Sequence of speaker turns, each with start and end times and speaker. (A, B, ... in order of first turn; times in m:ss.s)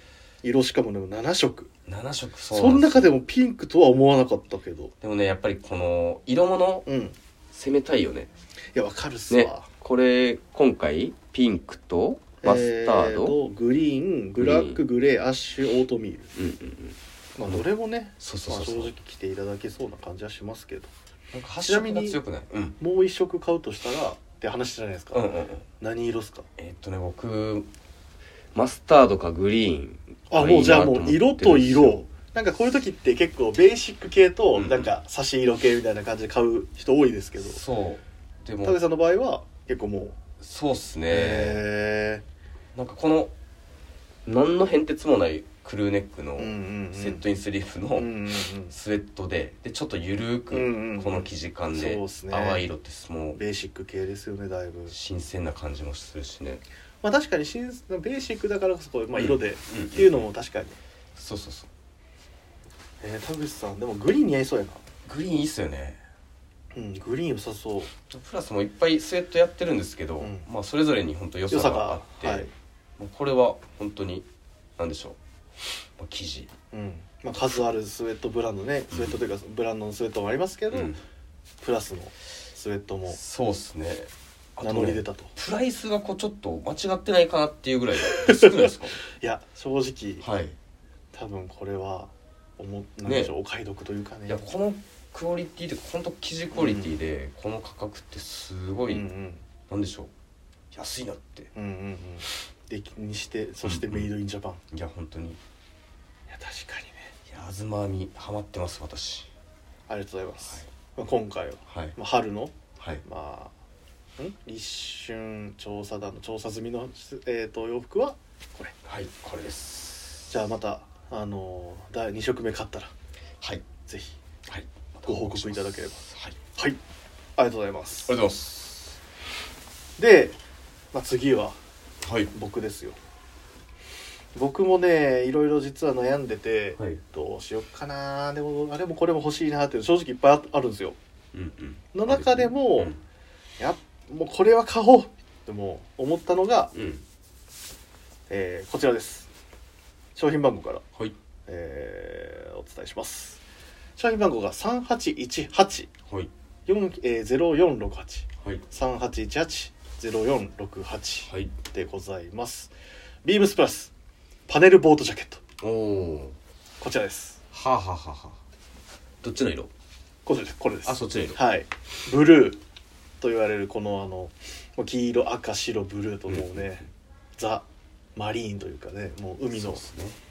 0:00.4-0:01.7 A
0:01.9-0:03.1 B
0:02.5-0:04.9 A
0:05.0-0:06.9 B
0:06.8-0:07.2 A
0:07.5-0:08.3 B
0:08.7-0:09.7 A
0:09.3-0:13.4 B
0:12.4-0:16.3 A
0:14.4-0:14.8 B
0:16.4-0:17.6 B
0:17.4-0:20.9 A
0:18.2-0:18.9 B
0:21.3-0:22.8 B
0:21.6-0:22.2 A
0:22.8-0:25.2 A
0:25.1-0:25.6 B
0:25.8-0:26.5 A
0:26.6-0:27.7 B
0:28.5-0:32.0 B
0:30.3-0:37.6 A
0:34.5-0:34.9 B
0:37.4-0:38.8 B
0:38.6-0:40.2 A
0:40.4-0:41.6 B
0:41.1-0:42.2 A
0:42.7-0:43.3 B
0:44.2-0:48.1 B
0:46.4-0:47.2 A
0:48.0-0:48.7 A
0:48.7-0:53.4 B
0:50.5-0:52.7 A
0:53.4-0:54.9 A
0:54.9-0:56.6 B
0:57.0-1:00.8 A
0:59.1-1:00.2 B
1:01.2-1:01.7 B
1:03.0-1:04.8 A
1:05.0-1:06.0 B
1:06.7-1:07.9 A
1:08.1-1:14.3 B
1:10.2-1:10.4 A
1:11.5-1:12.5 A
1:14.8-1:15.2 B
1:16.0-1:16.5 B
1:16.7-1:20.9 A
1:18.9-1:19.2 B
1:20.7-1:21.0 B
1:21.6-1:23.2 A
1:23.1-1:29.0 B
1:24.6-1:25.3 A
1:28.0-1:30.2 A
1:30.2-1:30.5 B
1:31.1-1:34.4 A
1:33.0-1:33.3 B
1:34.3-1:39.0 B
1:36.5-1:36.9 A
1:38.9-1:39.4 A
1:39.7-1:40.1 B
1:40.7-1:41.5 B
1:41.5-1:44.6 A
1:43.6-1:44.1 B
1:44.7-1:45.4 B
1:46.3-1:47.1 A
1:47.3-1:49.3 B
1:49.9-1:53.5 A
1:51.7-1:52.0 B
1:54.2-1:58.7 A
1:58.8-2:00.3 B
2:00.3-2:02.9 A
2:03.9-2:04.2 A
2:04.5-2:06.4 B
2:05.0-2:06.0 A
2:07.4-2:08.2 A
2:08.1-2:09.0 B
2:10.0-2:10.4 A
2:10.9-2:11.6 A
2:12.0-2:12.3 B
2:12.3-2:13.0 A
2:14.3-2:21.0 A
2:21.3-2:23.0 B
2:21.9-2:22.9 A
2:23.6-2:26.7 A
2:26.7-2:27.0 B
2:28.3-2:29.3 A
2:30.2-2:30.8 A
2:31.5-2:33.4 A
2:34.0-2:35.9 A
2:36.7-2:42.7 A
2:41.3-2:41.5 B
2:43.2-2:43.9 A
2:44.5-2:45.4 A
2:45.6-2:46.4 B
2:46.8-2:47.4 A
2:47.5-2:48.4 B
2:49.2-2:49.7 B
2:50.2-2:52.6 A
2:50.8-2:51.4 B
2:53.2-2:56.8 A
2:56.3-2:56.7 B
2:57.4-2:57.6 A
2:58.2-2:59.8 A
2:59.5-3:00.2 B